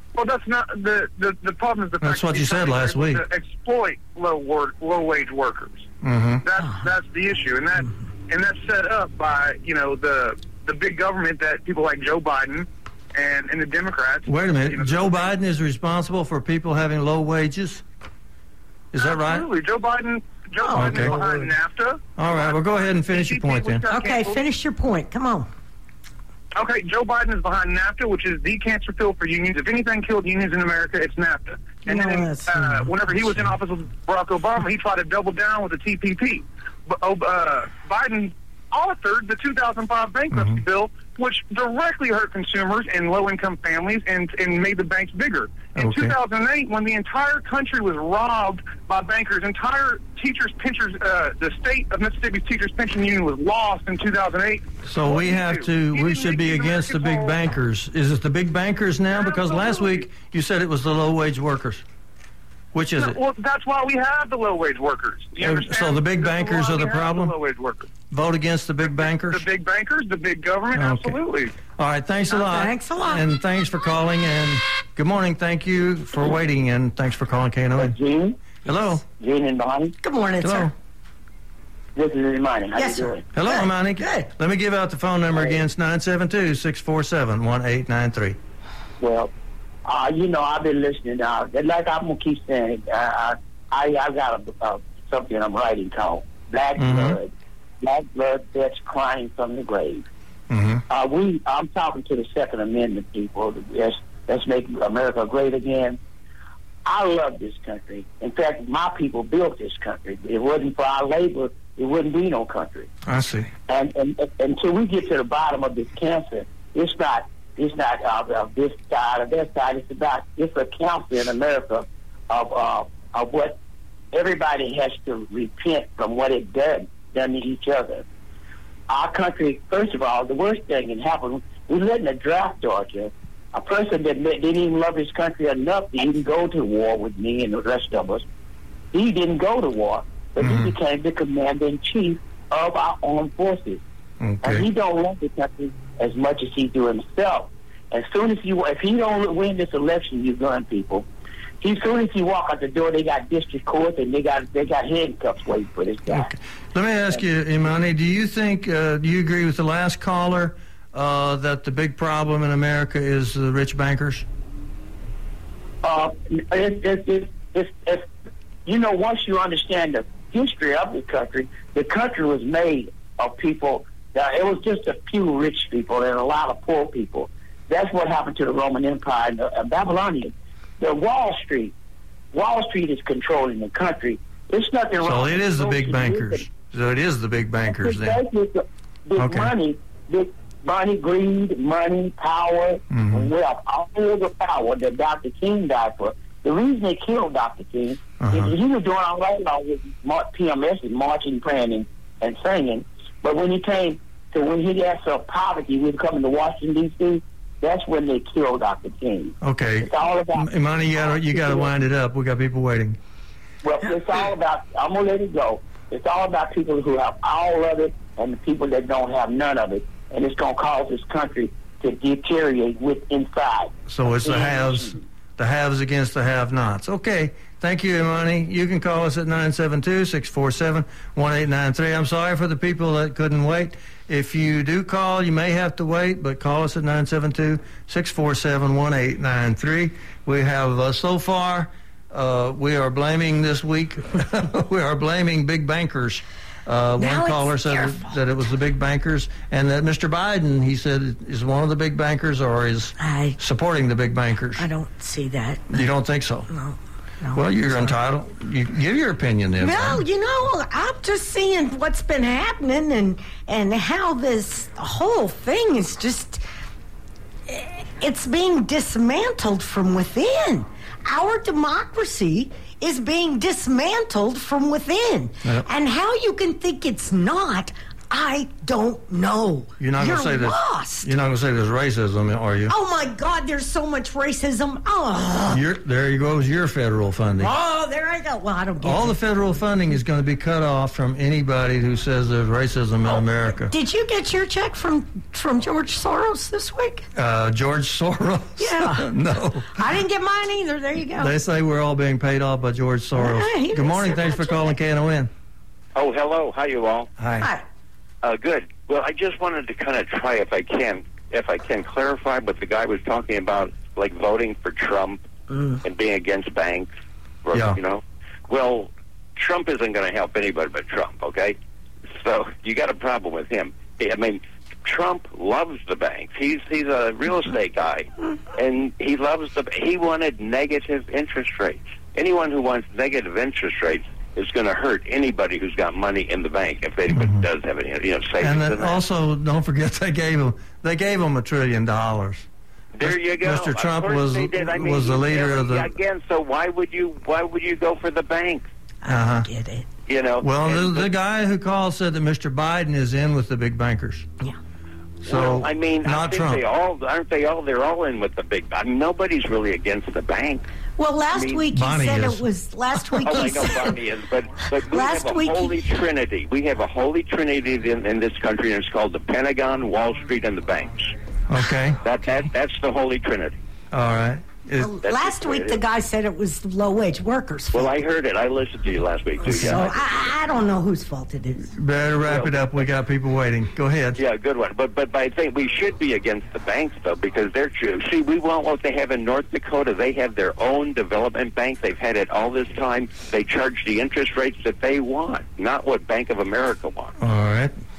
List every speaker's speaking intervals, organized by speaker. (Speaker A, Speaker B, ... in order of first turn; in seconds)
Speaker A: 0.1-5.9, 6.4-15.3, 19.0-24.4, 26.6-57.3, 59.1-60.0, 63.0-67.9, 68.9-71.5
Speaker B: 2.0-3.2, 6.0-6.4, 14.3-17.8, 18.9-19.5, 20.8-21.2, 22.2-23.9, 40.3-40.6, 45.8-46.1, 54.9-61.8, 62.7-63.2, 65.4-67.4, 68.1-69.5, 70.7-78.0, 78.7-79.0, 80.4-80.7, 83.3-88.4, 96.8-97.2, 100.5-100.8, 113.1-113.5, 140.4-140.7, 144.2-144.7, 156.1-164.3, 185.0-188.2, 189.2-189.5, 192.9-193.3, 198.2-198.5, 209.4-213.0, 223.9-254.7, 255.7-256.5, 257.3-260.0, 279.8-282.7, 285.5-287.5, 288.8-293.7, 297.1-299.8, 301.2-305.3, 307.2-307.5, 317.5-317.8, 337.1-337.5, 338.4-342.5, 343.0-345.9, 349.1-349.5, 350.4-354.3, 355.2-356.6, 361.7-362.4, 371.5-372.0, 373.9-374.9, 379.5-379.9, 381.7-384.2, 397.2-397.7
Speaker C: 20.6-21.5, 23.9-25.5, 31.9-32.8, 72.3-73.2, 80.0-80.7, 82.8-84.3, 247.0-248.2, 253.0-253.4, 254.6-255.8, 256.5-257.9, 259.6-266.4, 267.5-281.1, 282.7-285.6, 287.4-289.2, 293.7-297.1, 298.6-299.1, 299.8-301.3, 303.1-304.7, 315.5-315.8, 349.0-349.9, 361.0-363.9, 364.9-365.8, 374.8-377.9, 379.4-381.7
Speaker D: 77.8-78.4, 79.1-80.0, 82.0-83.2, 89.0-89.3, 89.8-100.1, 100.9-106.0, 106.8-112.9, 113.7-123.6, 124.1-128.1, 128.9-138.2, 138.9-143.8, 144.4-151.1, 151.6-156.3, 165.8-168.1, 168.7-181.7, 182.3-186.5, 187.7-211.7, 213.6-225.0
Speaker E: 305.9-307.1, 308.2-315.2, 315.8-316.9, 317.4-321.6, 322.1-339.0, 342.9-348.7, 350.1-351.1, 355.2-360.6, 361.3-361.6, 363.2-371.1, 372.0-373.6, 375.0-375.8, 377.7-379.9, 382.3-382.8, 384.2-397.1